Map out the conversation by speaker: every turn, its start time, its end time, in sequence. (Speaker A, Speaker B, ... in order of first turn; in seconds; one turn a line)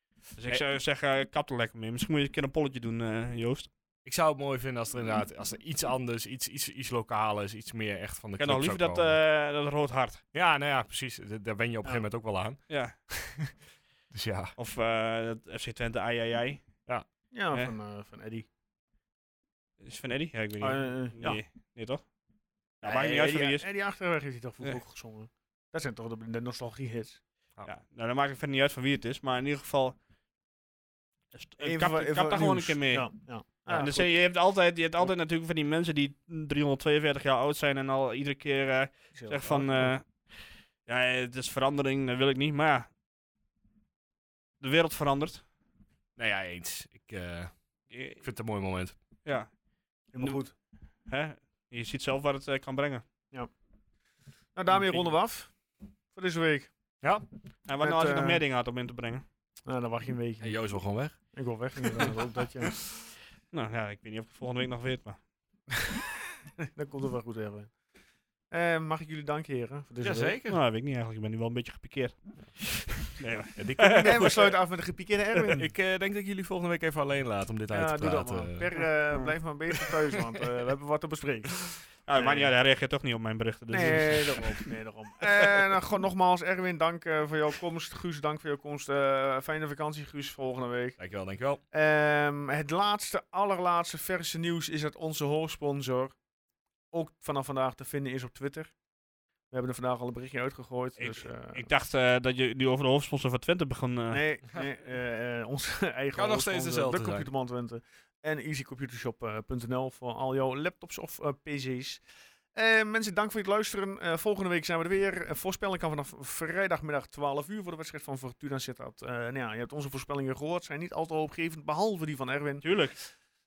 Speaker A: 0.4-3.7
Speaker B: 4.0-9.2
Speaker A: 8.4-10.2
Speaker B: 10.3-13.5
Speaker A: 12.7-12.9
Speaker B: 14.1-14.6
Speaker A: 14.6-16.7
Speaker C: 17.3-18.4
Speaker A: 19.8-22.1
Speaker C: 20.6-21.4
Speaker A: 22.8-23.6
Speaker C: 22.8-27.2
Speaker A: 27.6-29.9
Speaker A: 31.3-33.1
Speaker C: 31.6-34.1
Speaker A: 33.6-42.9
Speaker C: 39.1-39.9
Speaker A: 44.6-45.4
Speaker B: 46.1-47.5
Speaker A: 47.9-48.2
Speaker B: 48.2-49.0
Speaker A: 49.2-49.5
Speaker C: 50.1-50.5
Speaker A: 51.1-53.0
Speaker C: 54.5-55.5
Speaker A: 54.8-55.1
Speaker C: 56.1-56.7
Speaker A: 57.6-59.2
Speaker C: 57.8-58.4
Speaker C: 59.6-60.6
Speaker B: 60.4-61.2
Speaker C: 61.3-62.7
Speaker A: 63.5-65.2
Speaker C: 66.6-67.7
Speaker C: 68.5-70.3
Speaker B: 70.0-70.6
Speaker A: 70.5-74.5
Speaker B: 73.5-74.3
Speaker C: 74.0-75.7
Speaker B: 75.5-78.7
Speaker C: 77.7-82.5
Speaker A: 82.1-84.5
Speaker C: 83.7-91.0
Speaker B: 91.0-91.6
Speaker C: 91.7-96.2
Speaker C: 96.9-98.7
Speaker C: 99.5-101.7
Speaker A: 101.0-104.2
Speaker C: 104.1-112.0
Speaker B: 106.1-107.3
Speaker C: 112.5-122.8
Speaker A: 122.6-123.0